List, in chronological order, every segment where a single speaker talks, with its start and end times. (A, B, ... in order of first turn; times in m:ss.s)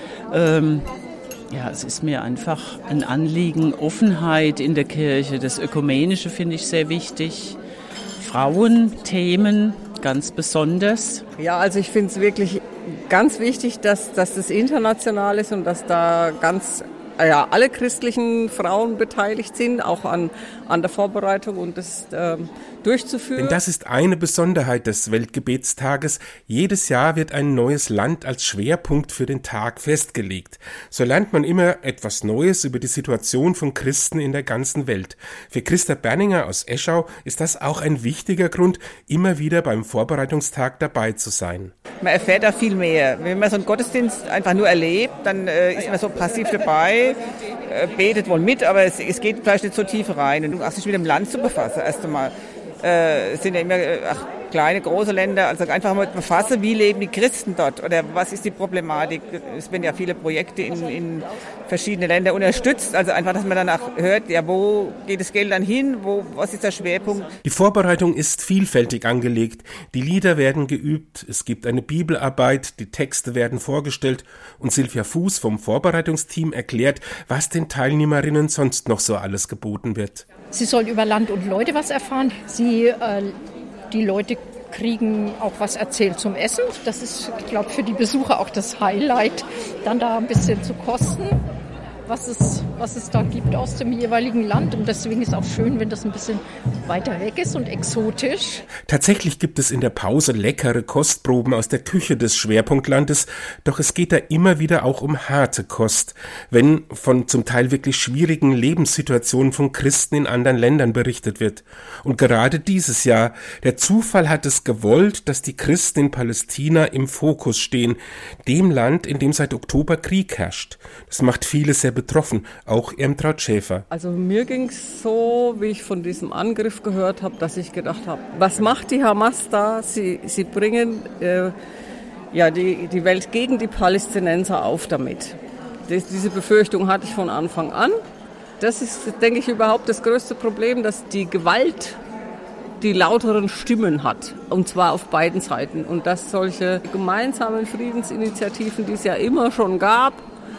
0:00.3-0:00.9 A
0:01.5-0:07.6 A
0:08.2-0:11.2 A
0:11.4-0:23.6 B
0:23.4-0:41.7 C
0:42.0-0:47.2 D
0:47.7-1:07.3 D
1:07.4-1:20.3 C
1:20.5-1:23.3 E
1:23.9-1:31.4 E
1:32.1-1:38.7 E
1:38.9-2:03.9 C
2:03.9-2:11.6 B
2:12.3-2:18.0 B
2:18.6-2:22.0 B
2:22.8-2:30.2 B